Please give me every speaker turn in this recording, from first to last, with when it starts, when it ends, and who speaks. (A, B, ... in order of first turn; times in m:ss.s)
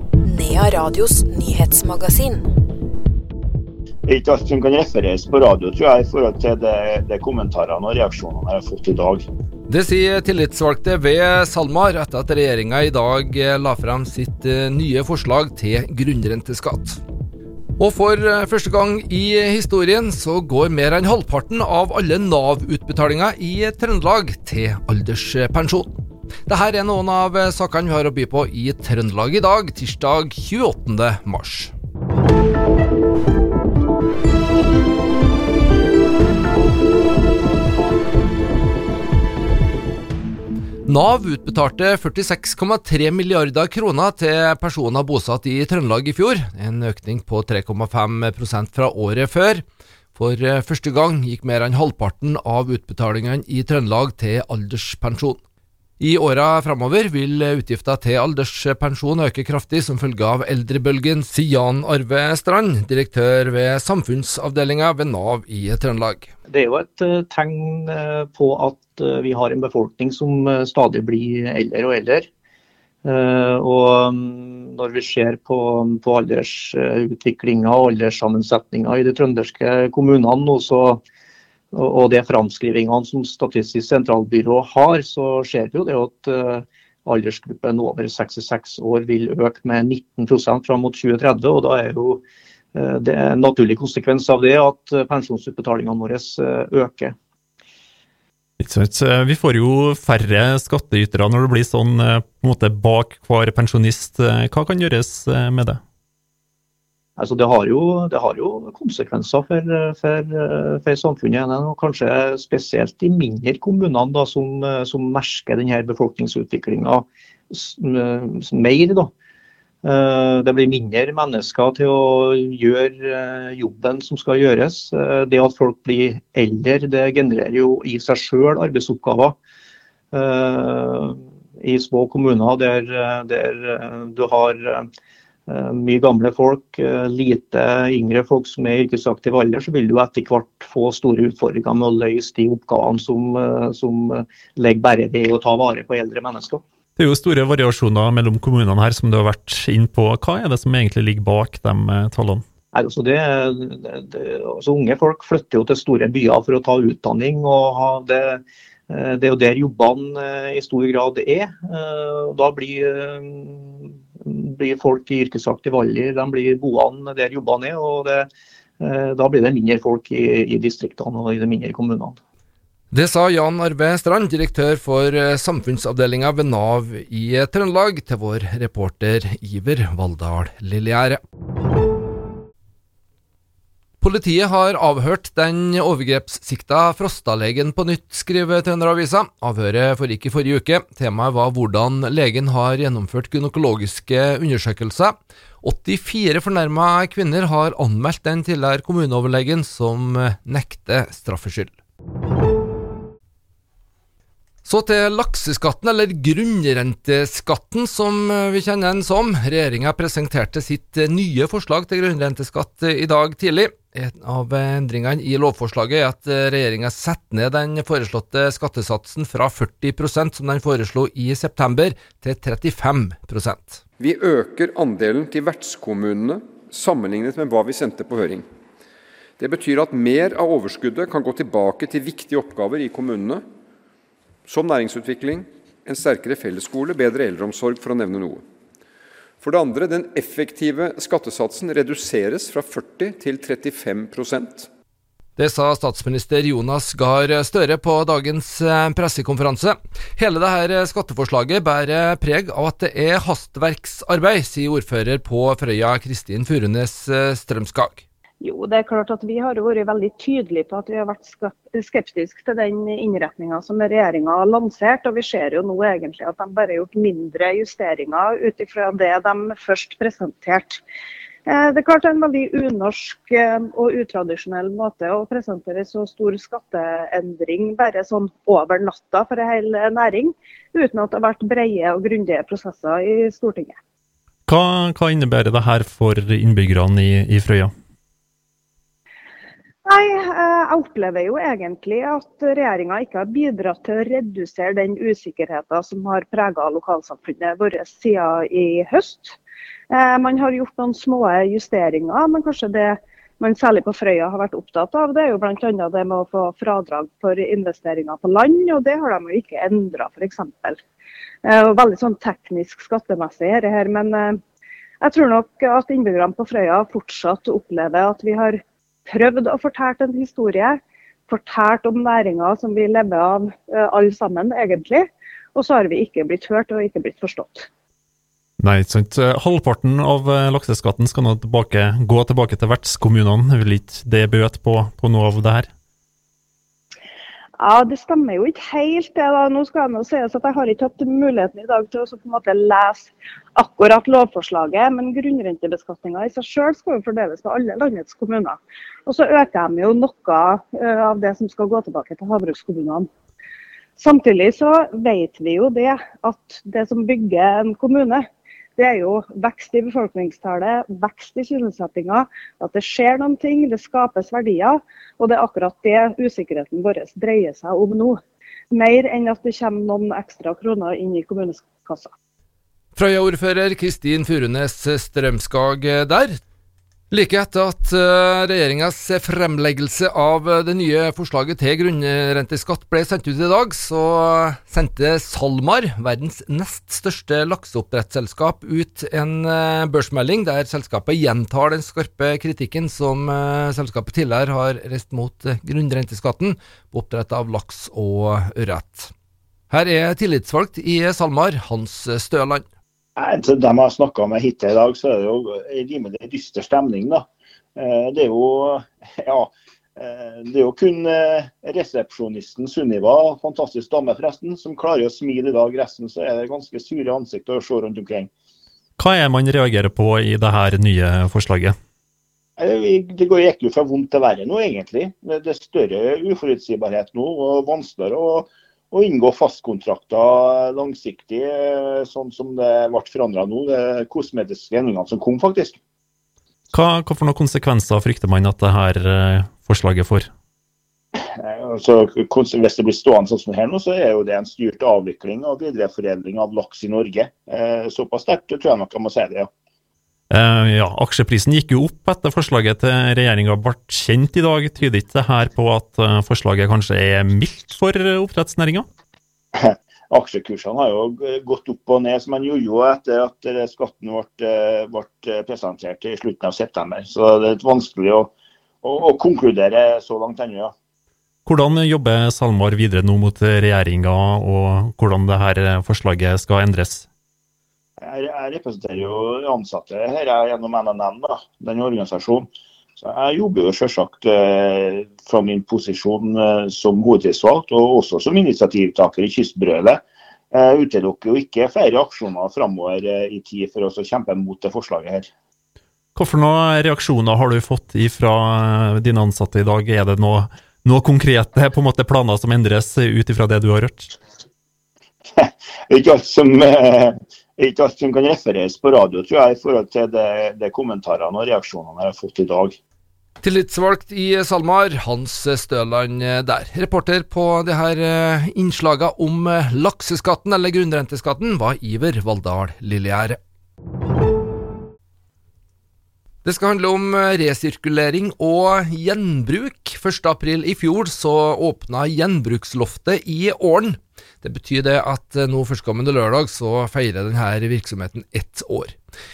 0:00.2-0:02.5 A
0:04.1-0:09.2 B
0:09.7-0:17.0 C
0:17.8-0:25.9 C
0:26.5-0:31.7 C
0:40.9-0:55.4 C
0:56.0-1:06.3 C
1:06.5-1:12.3 D
1:13.0-1:21.0 D
1:21.7-1:32.2 D
1:32.8-1:37.1 D
1:38.6-1:45.8 E
1:47.2-1:59.1 D
1:59.8-2:09.4 D
2:10.1-2:14.9 D
2:15.5-2:26.6 D
2:27.0-2:32.4 E
2:32.7-2:48.3 D
2:48.8-2:52.2 D
2:52.9-3:01.2 C
3:04.0-3:21.7 C
3:24.6-3:43.8 C
3:44.0-3:48.4 F
3:49.4-3:53.4 F
3:54.5-3:58.4 F
3:59.4-4:04.7 F
4:05.4-4:18.0 C
4:18.4-4:30.8 G
4:31.5-4:43.8 G
4:44.5-4:47.7 E
4:49.8-4:59.4 G
4:59.9-5:10.8 G
5:11.4-5:14.4 G
5:15.0-5:27.7 G
5:28.6-5:35.7 E
5:37.6-5:53.1 G
5:54.0-6:12.1 G
6:13.0-6:16.4 C
6:17.1-6:39.1 C
6:39.7-6:42.7 C
6:43.2-6:47.2 B
6:47.8-6:58.3 B
6:59.0-7:01.7 E
7:02.6-7:15.8 B
7:16.7-7:20.3 E
7:21.4-7:29.5 B
7:30.3-7:38.8 E
7:39.6-7:48.3 B
7:48.8-7:50.7 B
7:51.5-7:57.1 E
7:58.0-8:15.3 B
8:16.2-8:24.1 E
8:25.4-8:32.8 B
8:33.4-8:43.4 C
8:46.4-8:59.0 C